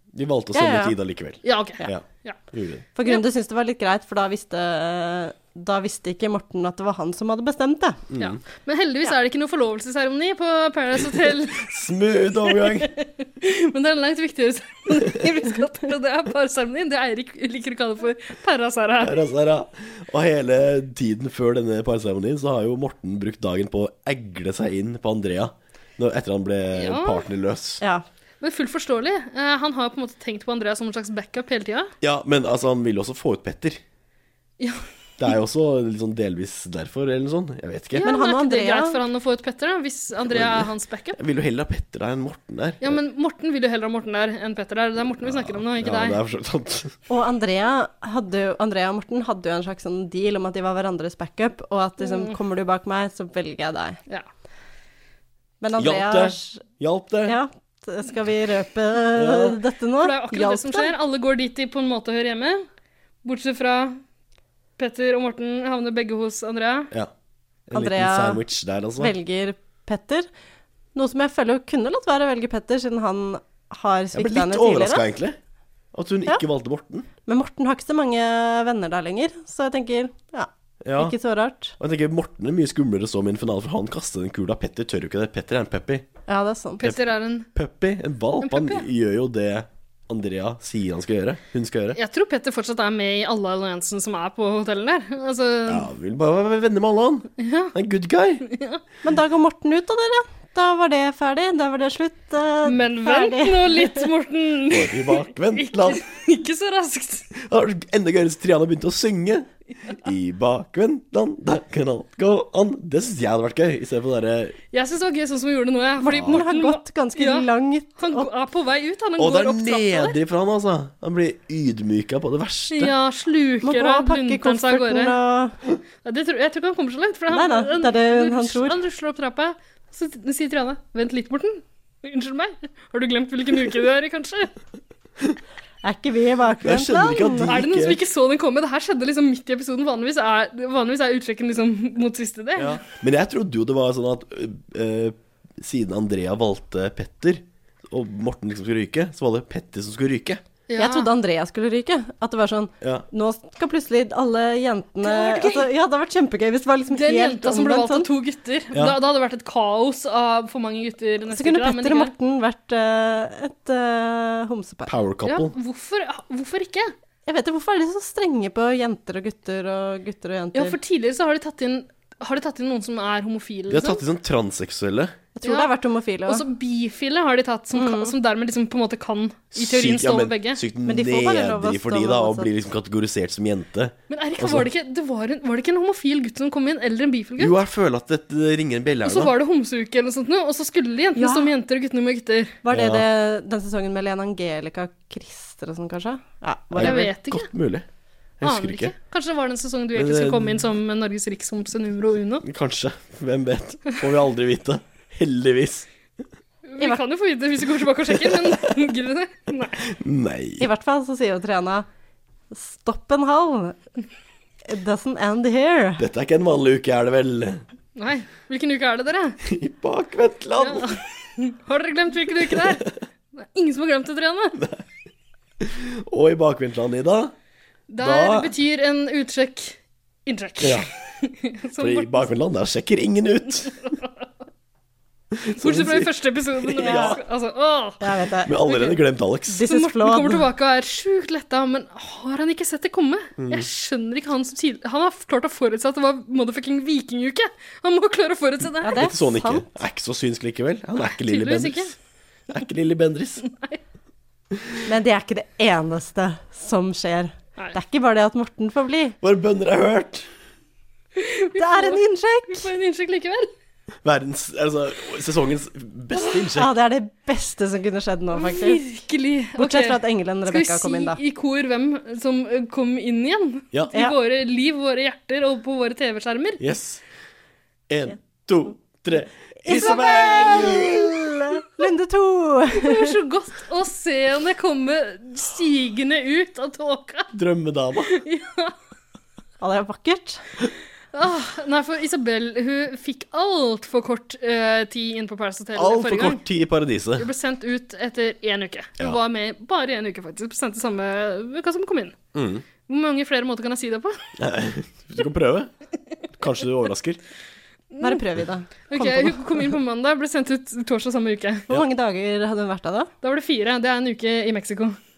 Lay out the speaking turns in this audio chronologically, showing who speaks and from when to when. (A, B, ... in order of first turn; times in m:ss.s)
0:00.1-0:02.8 A
0:00.5-0:01.0 B
0:01.4-0:02.4 C
0:03.0-0:08.0 B
0:08.1-0:08.4 A
0:08.2-0:11.7 C
0:11.6-0:12.9 A
0:12.4-0:19.2 C
0:19.0-0:27.8 A
0:26.8-0:27.3 C
0:28.4-0:31.9 C
0:32.0-0:33.8 A
0:35.2-0:38.1 A
0:38.0-0:41.2 C
0:38.0-0:39.0 B
0:40.3-0:43.0 A
0:42.8-0:46.2 C
0:45.2-0:46.9 A
0:47.1-0:54.0 B
0:52.0-0:52.4 C
0:55.6-0:56.6 B
0:55.8-0:57.4 A
0:57.2-1:00.9 B
0:59.2-0:59.6 A
1:00.0-1:02.7 C
1:03.2-1:04.0 C
1:04.8-1:06.9 C
1:07.7-1:09.1 A
1:07.7-1:08.4 B
1:09.0-1:10.3 B
1:11.0-1:15.0 B
1:14.1-1:15.4 A
1:15.9-1:17.1 A
1:17.2-1:21.8 B
1:20.8-1:21.2 A
1:21.8-1:26.0 A
1:26.3-1:26.8 B
1:26.8-1:27.5 C
1:27.5-1:32.0 A
1:28.4-1:28.8 C
1:32.0-1:35.9 C
1:35.7-1:38.5 A
1:37.4-1:37.7 C
1:38.5-1:38.8 C
1:39.0-1:44.1 B
1:42.6-1:47.3 C
1:44.7-1:46.0 A
1:47.4-1:54.6 A
1:54.7-2:00.2 C
1:56.0-1:58.3 B
1:59.2-2:02.9 A
2:02.7-2:05.2 C
2:03.6-2:05.6 B
2:06.0-2:14.5 C
2:07.3-2:08.8 B
2:15.8-2:17.6 B
2:16.6-2:18.0 A
2:17.5-2:22.8 C
2:22.6-2:30.4 A
2:30.7-2:31.1 C
2:30.8-2:38.1 B
2:35.0-2:35.7 C
2:36.9-2:42.1 C
2:41.3-2:44.9 B
2:44.9-2:45.5 A
2:45.3-2:46.9 C
2:47.3-2:50.8 B
2:50.6-2:54.0 C
2:53.7-2:55.2 A
2:55.4-2:56.4 B
2:55.4-2:55.7 C
2:56.3-3:00.6 C
2:57.7-2:58.2 B
2:59.5-3:04.7 A
3:00.8-3:02.5 B
3:04.1-3:07.6 C
3:07.4-3:09.3 A
3:09.0-3:12.6 C
3:11.2-3:11.5 B
3:12.6-3:17.1 B
3:12.7-3:13.0 A
3:16.8-3:17.8 A
3:16.8-3:17.5 C
3:18.4-3:18.9 A
3:18.4-3:22.4 C
3:20.0-3:20.6 A
3:22.4-3:25.9 A
3:26.7-3:29.8 C
3:30.0-3:30.7 A
3:30.6-3:31.9 B
3:32.5-3:33.8 B
3:34.7-3:36.0 B
3:36.0-3:37.6 A
3:38.0-3:39.4 C
3:39.5-3:41.0 A
3:40.6-3:44.6 C
3:45.6-3:47.3 A
3:47.9-3:52.3 C
3:48.0-3:48.5 A
3:50.6-3:50.9 A
3:51.8-3:53.8 A
3:53.7-3:54.3 C
3:55.4-3:57.2 A
3:55.6-3:58.0 C
3:56.8-3:57.2 B
3:58.0-3:58.7 B
3:58.5-3:59.6 A
3:58.6-3:59.0 C
3:59.5-4:00.5 B
3:59.6-4:09.0 C
4:03.4-4:03.7 A
4:08.8-4:09.7 B
4:09.0-4:11.9 A
4:11.0-4:11.9 C
4:12.5-4:13.4 A
4:13.5-4:13.8 C
4:14.9-4:19.2 B
4:19.2-4:20.3 A
4:21.2-4:23.5 C
4:21.6-4:22.7 B
4:24.0-4:26.7 A
4:26.6-4:28.8 B
4:28.4-4:36.6 C
4:29.6-4:31.2 B
4:36.6-4:37.0 A
4:37.9-4:41.1 A
4:39.6-4:43.2 B
4:39.7-4:40.9 C
4:42.8-4:47.3 C
4:47.3-4:48.2 A
4:48.1-4:48.8 C
4:49.6-4:50.4 B
4:51.1-4:56.4 C
4:55.8-4:57.3 A
4:57.2-5:02.2 C
5:02.3-5:02.6 A
5:02.9-5:04.2 C
5:04.4-5:05.7 A
5:06.4-5:07.2 A
5:07.9-5:08.2 C
5:08.0-5:09.7 B
5:08.9-5:11.7 C
5:11.7-5:13.1 B
5:13.2-5:15.0 C